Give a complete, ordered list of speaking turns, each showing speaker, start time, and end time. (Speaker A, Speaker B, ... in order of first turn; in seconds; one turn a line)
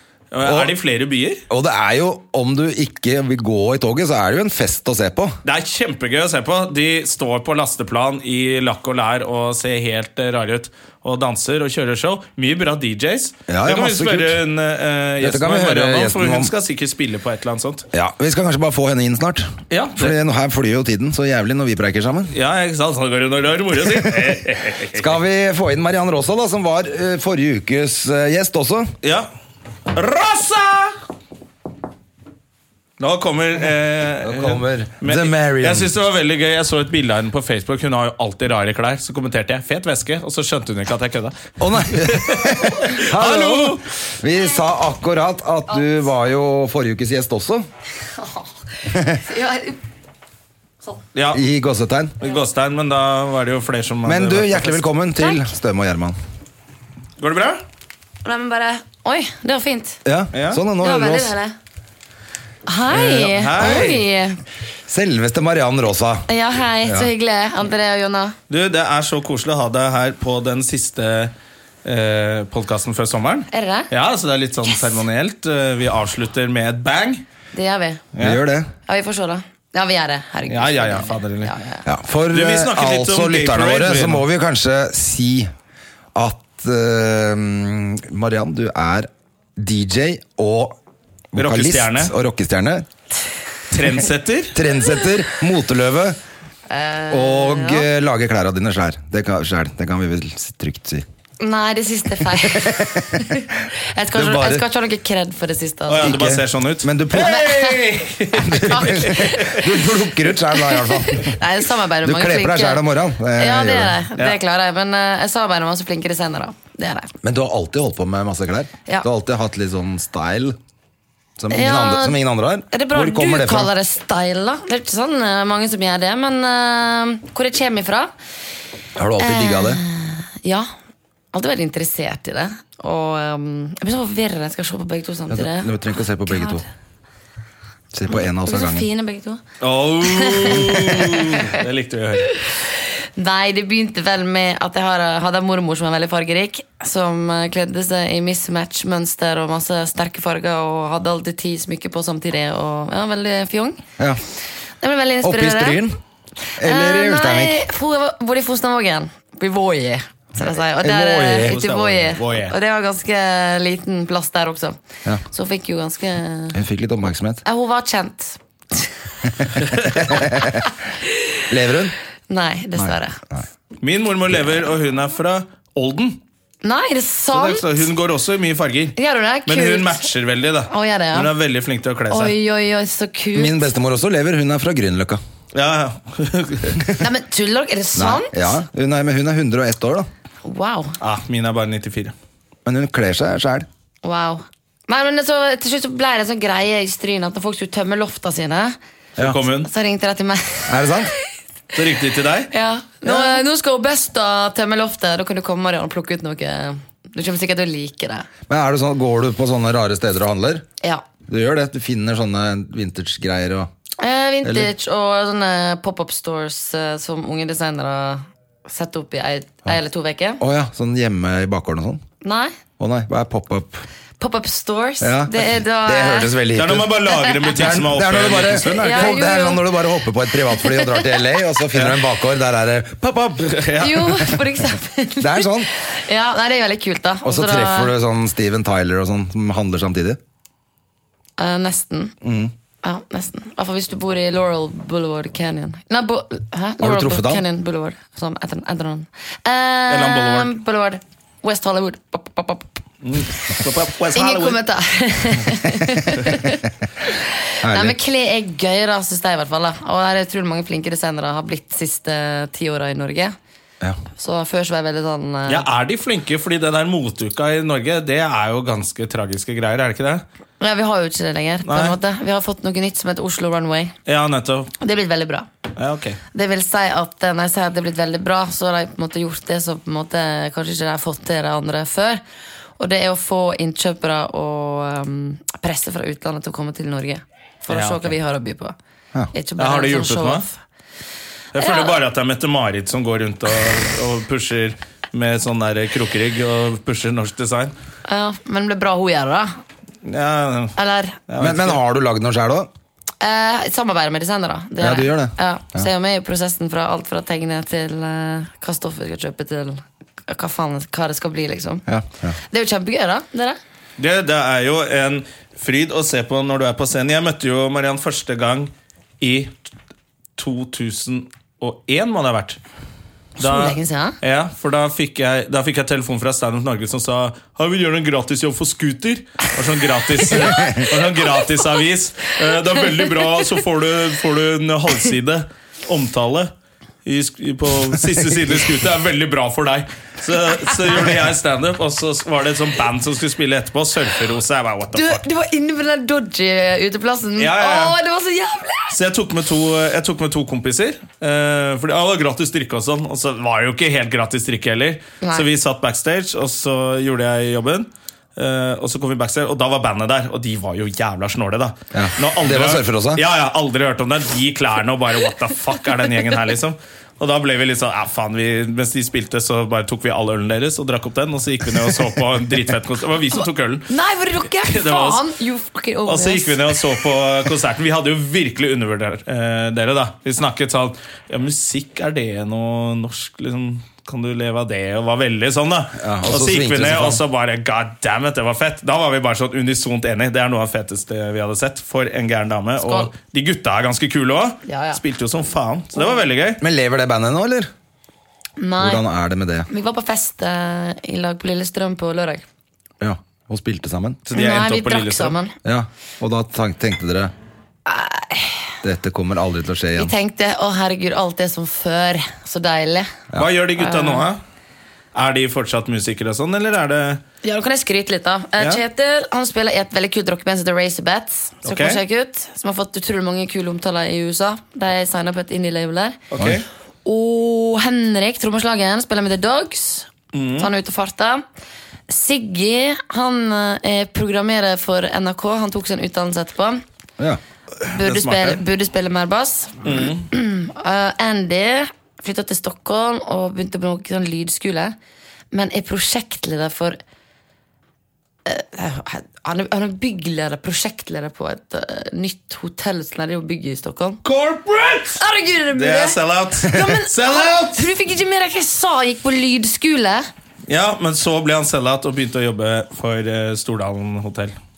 Speaker A: 0.3-1.4
Speaker B: 0.4-0.7
Speaker B: 1.5-5.4
Speaker A: 5.4-17.9
Speaker B: 13.5-14.4
Speaker B: 15.2-16.5
Speaker B: 17.9-22.3
Speaker A: 19.7-20.1
Speaker A: 22.3-25.1
Speaker B: 24.1-24.3
Speaker B: 24.9-28.9
Speaker A: 29.9-31.0
Speaker A: 33.0-43.8
Speaker B: 34.2-35.9
Speaker B: 41.6-47.7
Speaker C: 48.0-49.8
Speaker B: 48.9-49.2
Speaker A: 51.1-51.4
Speaker B: 51.3-52.1
Speaker A: 52.2-54.9
Speaker B: 54.0-56.2
Speaker A: 57.2-57.6
Speaker C: 58.2-60.0
Speaker B: 60.0-61.3
Speaker A: 60.3-60.6
Speaker C: 60.8-61.5
Speaker C: 62.7-64.4
Speaker A: 63.0-64.0
Speaker B: 63.6-63.9
Speaker B: 64.9-66.3
Speaker C: 66.3-68.3
Speaker B: 66.8-67.1
Speaker A: 68.5-71.3
Speaker A: 71.8-77.2
Speaker C: 73.5-73.9
Speaker C: 77.5-78.0
Speaker A: 78.1-78.4
Speaker B: 78.2-78.7
Speaker C: 78.9-81.8
Speaker A: 80.5-81.5
Speaker B: 81.8-85.5
Speaker A: 82.3-84.2
Speaker B: 86.1-90.8
Speaker B: 91.3-92.8
Speaker A: 91.3-92.1
Speaker A: 93.7-94.5
Speaker B: 94.5-96.2
Speaker C: 96.7-97.9
Speaker B: 97.1-101.0
Speaker C: 101.4-106.2
Speaker B: 102.4-104.6
Speaker A: 105.9-109.4
Speaker B: 106.0-107.7
Speaker C: 107.1-107.8
Speaker B: 108.4-111.4
Speaker C: 108.5-109.7
Speaker C: 110.5-112.8
Speaker B: 112.0-114.0
Speaker C: 113.3-117.1
Speaker B: 117.2-120.5
Speaker B: 121.4-123.7
Speaker C: 121.5-122.2
Speaker C: 122.7-128.1
Speaker B: 128.9-129.8
Speaker C: 129.2-130.7
Speaker C: 131.3-135.7
Speaker B: 135.3-136.6
Speaker C: 136.2-136.6
Speaker B: 137.9-138.8
Speaker C: 138.1-139.4
Speaker A: 139.6-142.4
Speaker C: 140.0-141.6
Speaker C: 142.3-142.6
Speaker C: 143.2-153.8
Speaker C: 154.8-155.8
Speaker B: 155.2-156.0
Speaker B: 156.6-157.6
Speaker C: 156.6-164.8
Speaker B: 160.8-161.6
Speaker A: 161.4-162.5
Speaker C: 165.3-166.6
Speaker B: 166.5-167.4
Speaker C: 167.4-168.9
Speaker B: 169.4-170.6
Speaker A: 169.6-170.0
Speaker C: 170.1-171.4
Speaker B: 171.5-171.9
Speaker C: 172.3-173.2
Speaker B: 172.8-173.4
Speaker A: 173.8-176.2
Speaker C: 176.6-177.8
Speaker A: 177.3-182.3
Speaker C: 178.9-180.1
Speaker C: 180.7-181.3
Speaker C: 182.1-183.7
Speaker B: 183.3-185.2
Speaker A: 185.5-186.9
Speaker C: 187.0-188.6
Speaker B: 187.9-190.1
Speaker C: 190.4-190.9
Speaker A: 191.0-192.1
Speaker B: 192.7-193.7
Speaker C: 194.0-198.8
Speaker A: 199.2-199.7
Speaker C: 199.6-201.2
Speaker B: 200.7-201.1
Speaker A: 201.7-202.5
Speaker C: 202.5-208.3
Speaker B: 203.0-203.4
Speaker B: 208.5-210.7
Speaker B: 211.3-213.7
Speaker C: 214.0-220.4
Speaker B: 214.4-214.7
Speaker B: 220.4-222.0
Speaker C: 222.2-222.5
Speaker B: 222.8-223.8
Speaker C: 224.2-226.4
Speaker B: 225.0-233.7
Speaker A: 226.5-229.2
Speaker C: 227.1-227.5
Speaker C: 228.7-229.7
Speaker C: 230.5-231.2
Speaker A: 231.7-232.0
Speaker A: 233.4-234.3
Speaker C: 233.8-237.9
Speaker B: 235.2-235.7
Speaker B: 237.2-240.2
Speaker C: 241.4-242.1
Speaker B: 242.2-242.5
Speaker C: 242.8-252.7
Speaker B: 246.8-247.4
Speaker A: 249.9-250.5
Speaker A: 253.0-254.6
Speaker C: 254.1-263.3
Speaker B: 257.6-258.0
Speaker C: 264.1-265.6
Speaker A: 265.5-270.2
Speaker C: 270.6-273.9
Speaker A: 271.6-271.9
Speaker A: 274.1-274.7
Speaker C: 274.8-275.5
Speaker A: 275.8-276.2
Speaker C: 276.3-282.2
Speaker C: 282.8-288.8
Speaker A: 287.7-288.1
Speaker C: 289.3-290.6
Speaker A: 289.6-290.4
Speaker A: 291.5-297.7
Speaker C: 291.6-292.0
Speaker C: 298.1-299.5
Speaker A: 300.0-300.8
Speaker C: 300.8-301.2
Speaker A: 301.3-301.8
Speaker B: 301.4-302.7
Speaker C: 303.2-311.8
Speaker B: 304.8-305.9
Speaker B: 311.9-312.4
Speaker C: 312.5-313.6
Speaker A: 314.0-319.5
Speaker A: 320.4-322.6
Speaker C: 323.4-324.2
Speaker A: 323.4-336.5
Speaker C: 330.3-330.9
Speaker C: 332.7-333.3
Speaker A: 337.0-345.2
Speaker C: 344.9-349.0
Speaker A: 347.4-348.0
Speaker A: 348.9-373.9
Speaker C: 355.2-355.5
Speaker B: 361.9-363.2
Speaker C: 373.9-376.7
Speaker A: 374.6-375.2
Speaker A: 376.1-396.6
Speaker B: 386.0-387.2
Speaker C: 392.8-393.1
Speaker C: 394.7-395.0
Speaker B: 396.6-397.7
Speaker C: 398.6-399.0
Speaker B: 398.8-399.7
Speaker C: 399.7-402.4
Speaker B: 403.0-404.2
Speaker A: 404.2-405.4
Speaker C: 404.3-405.5
Speaker B: 405.6-407.3
Speaker C: 407.9-408.7
Speaker B: 408.8-410.1
Speaker C: 410.0-413.1
Speaker A: 413.4-414.4
Speaker C: 413.8-414.3
Speaker A: 415.1-417.2
Speaker C: 417.4-426.2
Speaker A: 421.6-422.0
Speaker A: 426.3-426.6
Speaker B: 426.4-426.6
Speaker C: 427.0-431.4
Speaker A: 430.3-430.7
Speaker C: 432.1-436.8
Speaker A: 437.8-438.6
Speaker C: 437.9-444.9
Speaker A: 439.8-440.3
Speaker C: 445.5-447.0
Speaker C: 448.4-454.2
Speaker A: 454.2-455.2
Speaker C: 455.1-460.3
Speaker A: 455.7-457.9
Speaker A: 460.7-464.5